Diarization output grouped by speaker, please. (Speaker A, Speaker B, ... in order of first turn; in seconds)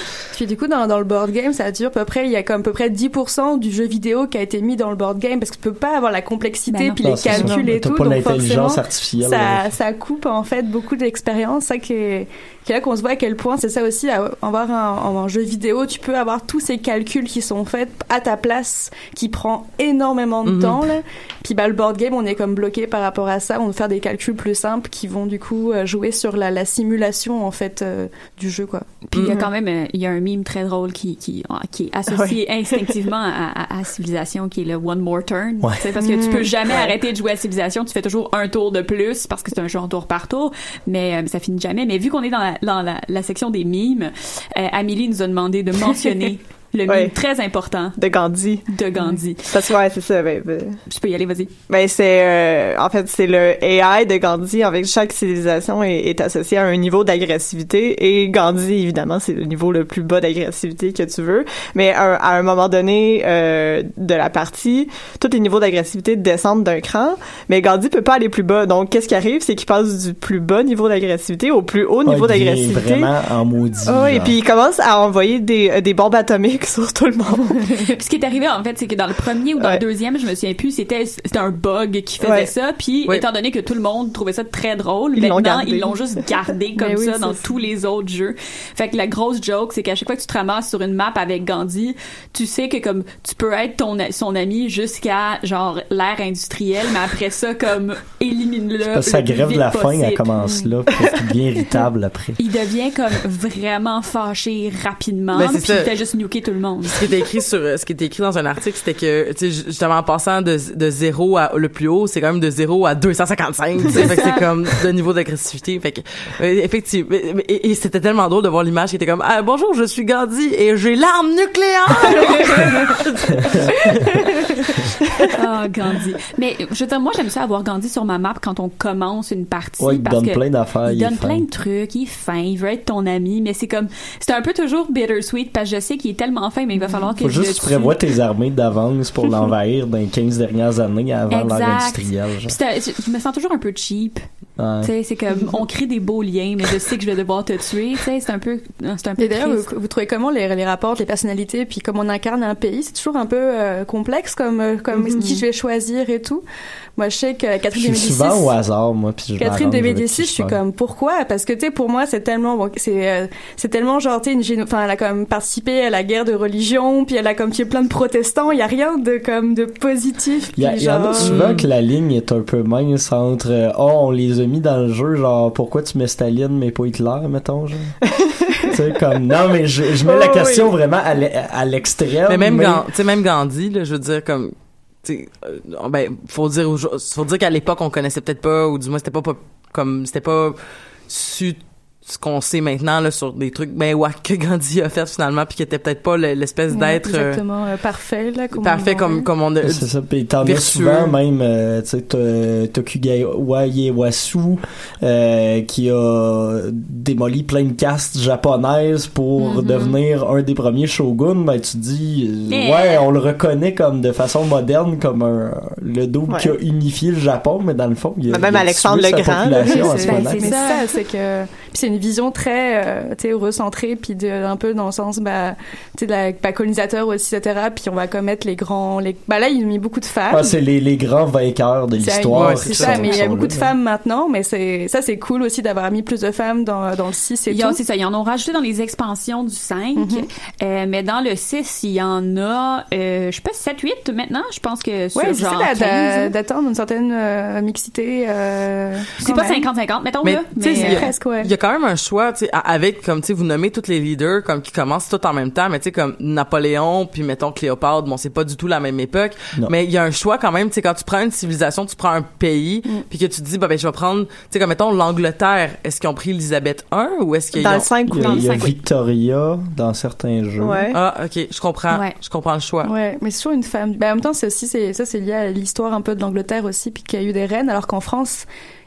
Speaker A: 0.3-29.0, 36.0-36.5, 86.8-87.4, 100.4-100.7, 149.2-156.4, 156.9-158.5, 159.4-171.4, 196.7-199.3, 219.6-230.5, 232.0-237.8, 239.9-240.3, 245.1-249.6, 250.7-251.5, 272.8-278.4
Speaker B: 6.7-7.5, 29.1-48.0, 48.7-49.5, 50.9-51.5, 77.9-100.3, 102.4-107.0, 125.3-137.9, 141.3-144.2, 144.8-149.7, 209.4-209.9, 212.5-213.0, 219.9-220.8, 237.5-246.3, 249.2-251.1, 268.1-268.7
Speaker C: 7.0-9.7, 72.0-74.4, 98.9-102.4, 129.8-131.4, 137.2-142.6, 144.6-144.9, 157.7-160.6, 170.6-177.9, 178.7-182.8, 199.6-220.6, 230.3-233.7, 268.1-270.8
Speaker D: 20.4-20.8, 105.3-105.9, 106.9-124.2, 171.2-171.7, 182.3-197.4, 198.5-199.9, 200.4-201.1, 232.3-233.1, 250.2-267.9, 270.9-272.9
Speaker E: 32.1-32.9, 46.9-47.1, 48.0-48.6, 49.5-50.8, 51.7-73.1, 73.9-77.7, 79.6-79.8, 82.2-82.5, 85.2-85.9, 154.9-155.3, 178.2-178.7, 180.0-180.7, 218.3-219.8, 267.6-268.6, 270.6-271.0